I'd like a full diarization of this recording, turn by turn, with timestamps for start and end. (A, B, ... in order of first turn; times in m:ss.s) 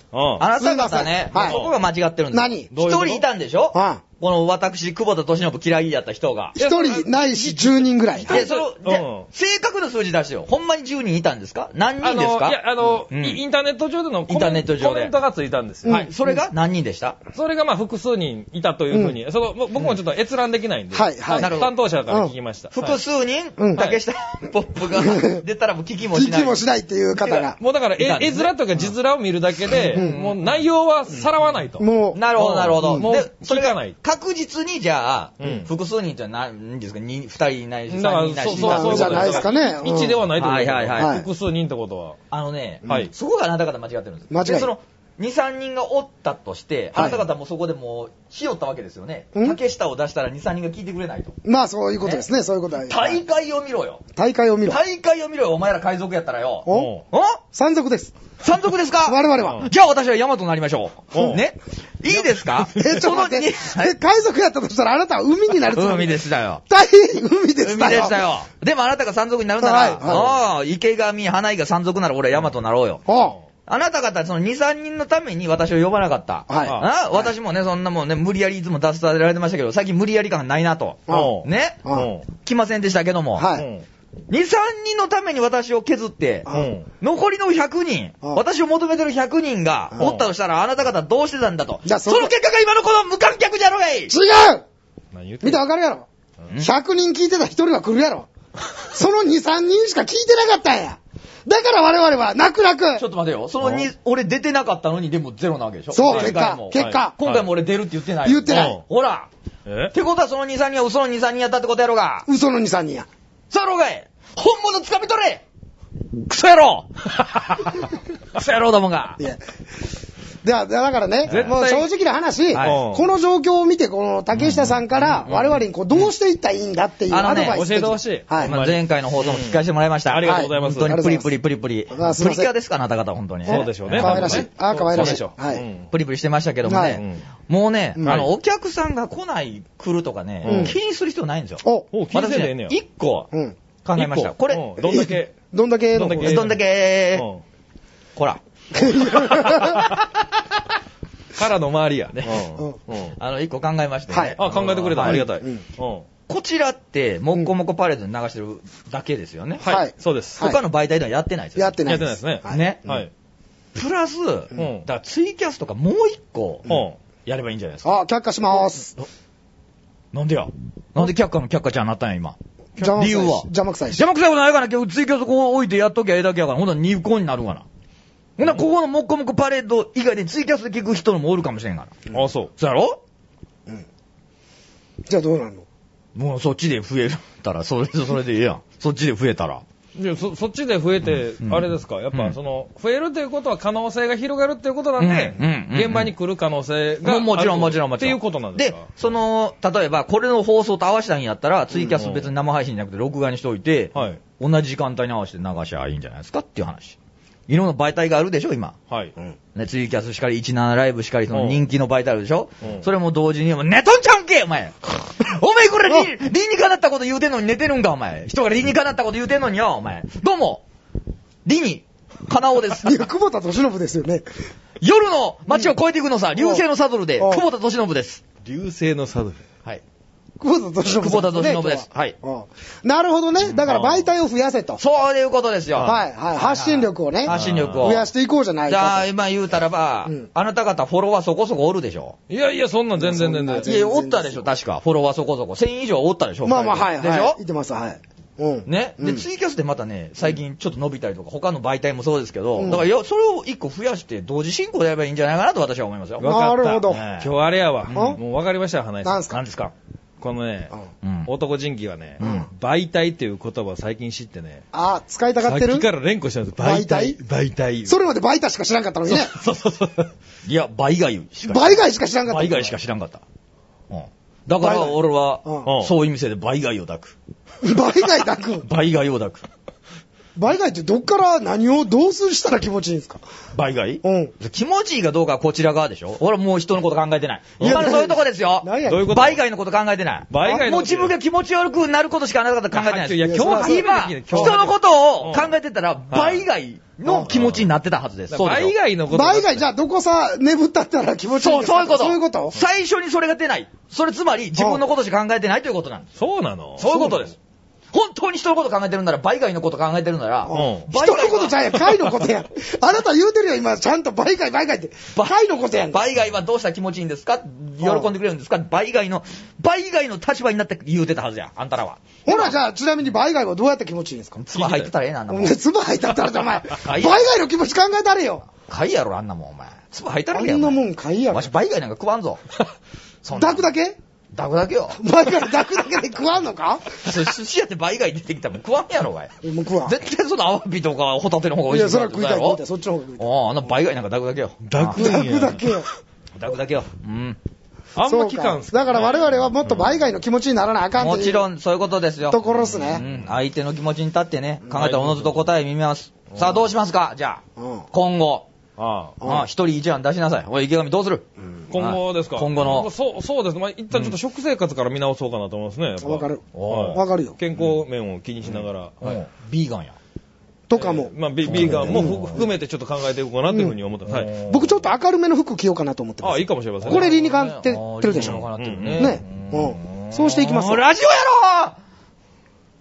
0:00.1-0:00.5 A
0:00.4-0:06.6 B
0:00.6-0:01.6 C
0:01.3-0:01.8 A
0:02.3-0:02.7 C
0:02.7-0:03.2 A
0:03.7-0:04.0 C
0:06.6-0:08.5 C
0:06.6-0:09.3 A
0:08.3-0:13.4 B
0:12.0-0:16.1 A
0:14.3-0:15.1 B
0:15.9-0:16.4 C
0:15.9-0:17.2 B
0:17.4-0:23.0 A
0:18.9-0:19.2 C
0:20.9-0:22.3 C
0:21.4-0:21.7 B
0:22.7-0:26.6 B
0:23.6-0:23.8 C
0:23.8-0:24.0 A
0:25.0-0:25.4 C
0:26.1-0:27.6 C
0:27.2-0:34.0 A
0:28.0-0:28.5 B
0:29.7-0:30.2 C
0:29.9-0:30.6 B
0:31.8-0:32.2 C
0:32.1-0:39.5 B
0:32.8-0:33.1 C
0:35.4-0:35.7 A
0:37.9-0:42.2 A
0:38.5-0:40.2 C
0:40.4-0:41.2 B
0:41.0-0:41.3 C
0:42.3-0:51.4 B
0:42.8-0:43.1 C
0:44.3-0:44.7 C
0:46.9-0:47.2 C
0:51.4-0:53.2 C
0:52.0-0:52.3 B
0:52.8-0:54.0 B
0:54.2-0:54.8 C
0:54.6-0:57.4 B
0:56.7-0:56.9 C
0:56.7-0:57.0 A
0:57.5-0:58.1 C
0:58.4-1:04.0 B
0:59.0-0:59.7 C
0:59.4-0:59.7 A
1:01.1-1:01.4 A
1:02.1-1:03.0 A
1:02.8-1:08.2 C
1:05.7-1:06.6 B
1:07.6-1:13.0 B
1:09.6-1:10.4 C
1:13.0-1:13.4 C
1:13.7-1:21.8 B
1:16.5-1:17.3 C
1:16.6-1:16.9 A
1:21.1-1:22.1 C
1:21.1-1:22.3 A
1:22.4-1:23.5 B
1:23.4-1:23.7 C
1:23.6-1:23.8 A
1:24.3-1:34.1 B
1:26.5-1:26.9 A
1:30.0-1:30.3 A
1:31.8-1:32.3 C
1:34.1-1:34.6 C
1:35.1-1:35.6 A
1:35.4-1:36.1 C
1:36.6-1:38.3 C
1:38.8-1:43.0 C
1:43.0-1:49.3 B
1:43.6-1:43.9 A
1:45.9-1:47.1 C
1:46.0-1:47.5 A
1:48.2-1:48.8 C
1:48.5-1:48.8 A
1:49.7-1:49.9 A
1:49.9-1:52.3 B
1:52.3-1:53.1 C
1:53.5-1:55.4 B
1:56.1-1:59.2 B
2:00.4-2:08.5 C
2:01.3-2:01.9 A
2:02.5-2:02.8 B
2:02.6-2:03.1 A
2:04.4-2:05.5 B
2:04.5-2:05.5 A
2:07.1-2:07.6 B
2:07.3-2:10.9 A
2:08.4-2:15.2 B
2:10.2-2:11.3 C
2:11.9-2:12.5 C
2:13.5-2:15.6 C
2:13.5-2:15.9 A
2:15.9-2:23.3 B
2:16.6-2:17.0 C
2:16.9-2:17.2 A
2:18.0-2:18.3 C
2:18.0-2:18.3 A
2:20.4-2:20.8 A
2:20.5-2:20.8 C
2:21.6-2:21.9 C
2:21.9-2:22.8 A
2:23.8-2:24.7 B
2:24.0-2:25.3 A
2:24.9-2:26.4 C
2:25.9-2:26.6 A
2:26.2-2:27.3 B
2:27.1-2:27.4 A
2:28.2-2:30.1 B
2:28.8-2:29.9 C
2:29.0-2:29.9 A
2:31.4-2:33.2 A
2:33.2-2:35.2 B
2:34.1-2:35.6 C
2:34.4-2:36.1 A
2:36.3-2:39.6 B
2:39.6-2:40.4 A
2:39.6-2:40.6 C
2:40.4-2:41.8 B
2:41.6-2:43.0 C
2:41.8-2:43.1 A
2:42.5-2:42.8 B
2:43.8-2:47.9 B
2:44.6-2:44.9 A
2:46.7-2:47.0 A
2:47.8-2:49.0 C
2:50.1-2:57.6 B
2:52.8-2:54.0 C
2:58.4-3:01.9 B
3:02.1-3:02.5 A
3:02.6-3:03.0 B
3:05.1-3:05.6 C
3:06.2-3:09.6 B
3:10.0-3:18.9 A
3:11.0-3:12.4 B
3:15.0-3:16.1 B
3:17.0-3:27.0 B
3:21.8-3:22.3 A
3:24.0-3:24.2 A
3:27.5-3:28.8 B
3:28.9-3:29.1 A
3:29.6-3:40.6 B
3:31.3-3:31.6 A
3:32.6-3:32.9 A
3:41.4-3:43.0 B
3:42.8-3:44.2 C
3:44.8-3:48.2 B
3:45.5-3:45.7 C
3:46.4-3:46.6 C
3:47.2-3:47.4 C
3:48.4-3:49.4 A
3:50.4-3:54.8 C
3:50.9-3:52.2 B
3:53.5-3:54.1 A
3:54.8-3:56.0 B
3:55.7-3:58.0 A
3:55.8-3:59.1 C
3:57.2-3:58.1 B
3:58.7-4:02.2 B
4:02.3-4:03.7 A
4:03.0-4:04.5 C
4:03.6-4:07.4 B
4:06.4-4:09.2 C
4:08.7-4:16.4 B
4:12.6-4:12.9 C
4:16.2-4:19.3 A
4:16.2-4:17.0 C
4:16.9-4:17.3 B
4:17.9-4:18.2 C
4:19.0-4:19.4 C
4:19.3-4:19.7 B
4:20.2-4:24.6 A
4:21.0-4:21.3 B
4:22.2-4:22.5 C
4:24.7-4:25.9 C
4:25.4-4:28.0 A
4:26.6-4:27.2 C
4:27.8-4:29.4 C
4:29.1-4:30.1 A
4:30.4-4:33.2 B
4:31.5-4:32.8 C
4:33.9-4:37.2 B
4:34.6-4:35.7 C
4:35.6-4:35.9 A
4:37.6-4:38.7 C
4:38.6-4:39.5 B
4:40.4-4:43.2 C
4:43.5-4:58.8 B
4:44.0-4:44.3 C
4:47.6-4:49.2 C
4:48.9-4:49.4 A
4:50.3-4:51.1 A
4:52.7-4:55.6 A
4:53.2-4:54.6 C
4:56.1-4:56.4 A
4:57.0-4:57.5 C
4:58.3-4:59.7 A
4:59.1-5:02.6 C
5:01.4-5:06.1 B
5:04.6-5:04.8 C
5:06.2-5:07.2 A
5:06.8-5:07.3 B
5:06.9-5:07.3 C
5:07.9-5:11.7 B
5:10.5-5:16.0 C
5:10.5-5:10.9 A
5:11.8-5:12.2 A
5:15.1-5:22.6 B
5:17.8-5:18.1 C
5:22.2-5:24.5 C
5:24.4-5:25.6 B
5:24.6-5:24.9 A
5:25.3-5:28.5 C
5:26.8-5:27.3 B
5:28.6-5:32.4 B
5:30.3-5:31.5 C
5:33.2-5:33.7 B
5:33.3-5:34.0 C
5:34.3-5:35.0 B
5:35.0-5:36.9 C
5:37.0-5:39.3 B
5:39.4-5:40.0 C
5:39.8-5:42.6 B
5:41.7-5:43.3 C
5:43.2-5:45.4 B
5:44.6-5:45.7 A
5:44.9-5:45.9 C
5:46.4-5:47.4 B
5:48.0-5:50.0 A
5:48.0-5:51.5 C
5:51.0-5:58.5 B
5:52.3-5:53.0 C
5:52.8-5:53.2 A
5:54.7-5:55.5 A
5:57.6-5:57.9 C
5:58.8-5:59.2 A
5:59.2-5:59.5 C
5:59.2-6:02.9 B
6:01.7-6:09.2 A
6:06.0-6:07.4 C
6:06.5-6:07.0 B
6:09.0-6:10.0 B
6:10.7-6:12.4 C
6:10.8-6:14.3 A
6:11.5-6:12.4 B
6:13.5-6:13.8 C
6:14.1-6:14.8 B
6:14.5-6:20.8 C
6:16.2-6:17.2 A
6:16.8-6:21.8 B
6:18.1-6:19.2 A